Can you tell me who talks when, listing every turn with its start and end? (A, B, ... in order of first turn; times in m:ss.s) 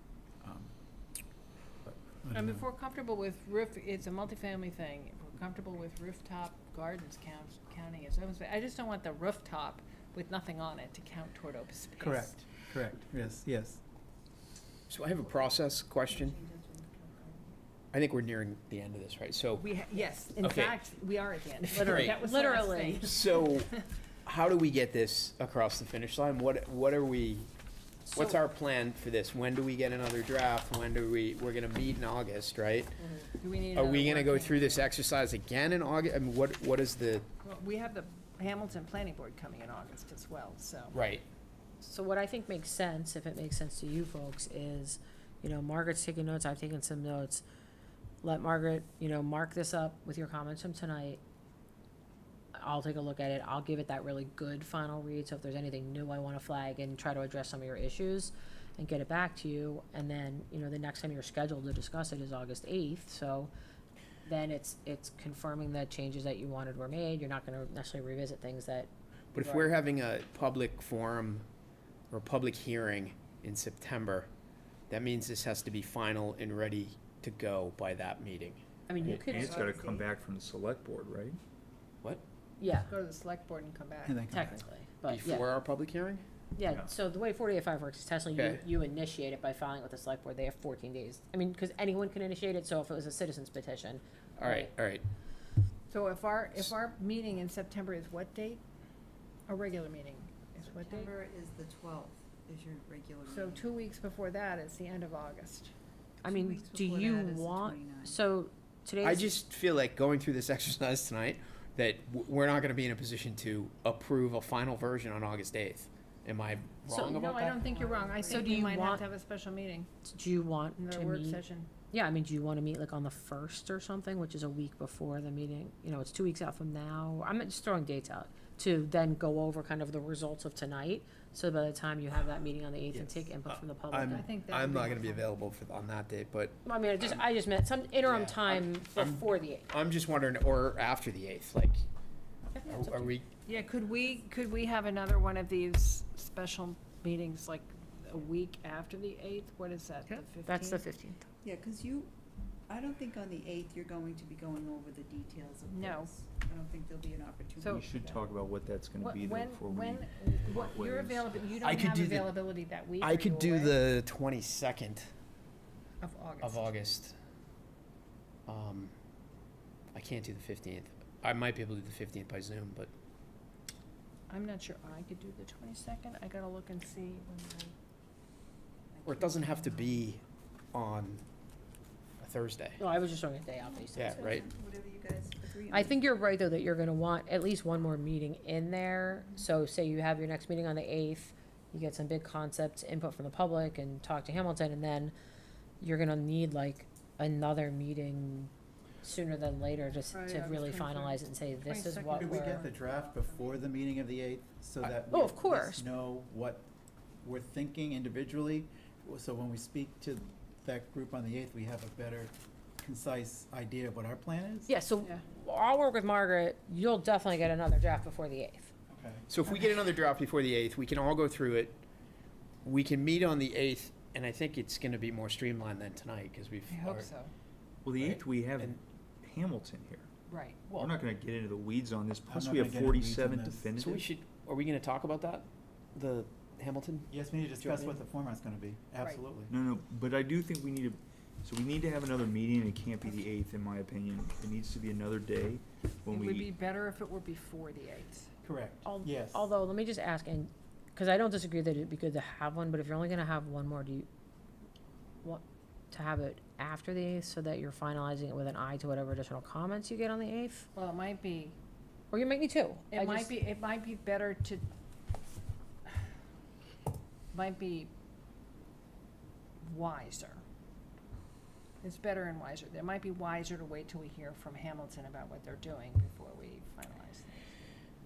0:00.4-0:00.7 A
0:01.8-0:02.7 A
0:02.3-0:12.3 B
0:12.0-0:13.8 A
0:14.9-0:16.4 C
0:15.3-0:15.6 D
0:16.1-0:17.5 D
0:17.9-0:19.7 C
0:19.6-0:23.1 B
0:20.4-0:20.9 C
0:21.7-0:23.2 E
0:21.8-0:22.2 C
0:23.0-0:27.5 C
0:28.1-0:33.0 C
0:33.4-0:34.9 B
0:33.6-0:37.2 C
0:37.4-0:40.9 B
0:40.9-0:41.2 C
0:41.8-0:47.4 E
0:48.2-0:51.2 E
0:52.5-1:03.5 E
1:04.2-1:09.7 E
1:09.3-1:11.4 C
1:12.1-1:14.3 C
1:14.9-1:18.6 C
1:18.9-1:19.6 E
1:19.0-1:21.4 F
1:19.3-1:20.1 D
1:22.6-1:22.9 E
1:22.8-1:24.1 B
1:24.0-1:24.6 A
1:24.2-1:25.5 E
1:25.0-1:26.2 C
1:26.6-1:34.7 E
1:28.3-1:28.6 C
1:34.4-1:35.0 C
1:35.9-1:38.6 B
1:39.5-1:41.1 B
1:40.6-1:43.7 D
1:43.3-1:45.7 B
1:46.2-1:49.3 E
1:46.2-1:48.2 D
1:49.0-1:57.6 C
1:57.1-1:59.9 B
1:57.7-1:59.0 E
2:00.0-2:14.3 E
2:00.8-2:01.7 B
2:12.9-2:17.2 C
2:14.1-2:15.2 B
2:16.6-2:19.7 E
2:18.0-2:21.8 C
2:22.5-2:23.1 E
2:22.6-2:23.3 C
2:23.4-2:30.8 B
2:30.1-2:31.2 E
2:31.4-2:32.1 D
2:32.7-2:38.3 D
2:35.7-2:36.1 B
2:37.6-2:41.7 F
2:39.0-2:43.7 B
2:41.6-2:42.4 C
2:43.0-2:45.1 C
2:46.0-2:46.7 B
2:46.4-2:47.1 C
2:48.5-2:48.9 C
2:49.9-2:52.9 C
2:54.3-2:57.7 B
2:58.9-2:59.9 D
2:59.0-3:01.2 C
3:02.2-3:02.8 C
3:02.8-3:04.3 E
3:03.6-3:05.9 D
3:03.9-3:04.5 C
3:05.7-3:15.1 E
3:15.8-3:18.5 E
3:19.0-3:22.6 E
3:20.1-3:23.5 B
3:22.1-3:26.6 A
3:24.8-3:25.8 E
3:27.2-3:34.7 A
3:34.7-3:38.7 E
3:38.9-3:39.3 A
3:39.3-3:41.8 C
3:42.6-3:47.1 C
3:46.7-3:47.3 B
3:47.8-3:50.1 F
3:48.0-3:48.8 C
3:50.3-3:50.7 B
3:50.7-3:54.0 F
3:52.3-3:53.7 A
3:53.8-3:58.0 C
3:57.1-3:59.5 A
3:59.5-4:06.6 F
4:06.2-4:08.3 B
4:08.4-4:09.5 A
4:08.8-4:14.1 E
4:15.2-4:20.7 E
4:20.7-4:21.6 B
4:22.1-4:23.4 E
4:22.9-4:24.6 B
4:27.3-4:27.9 B
4:29.6-4:30.4 B
4:31.8-4:37.6 B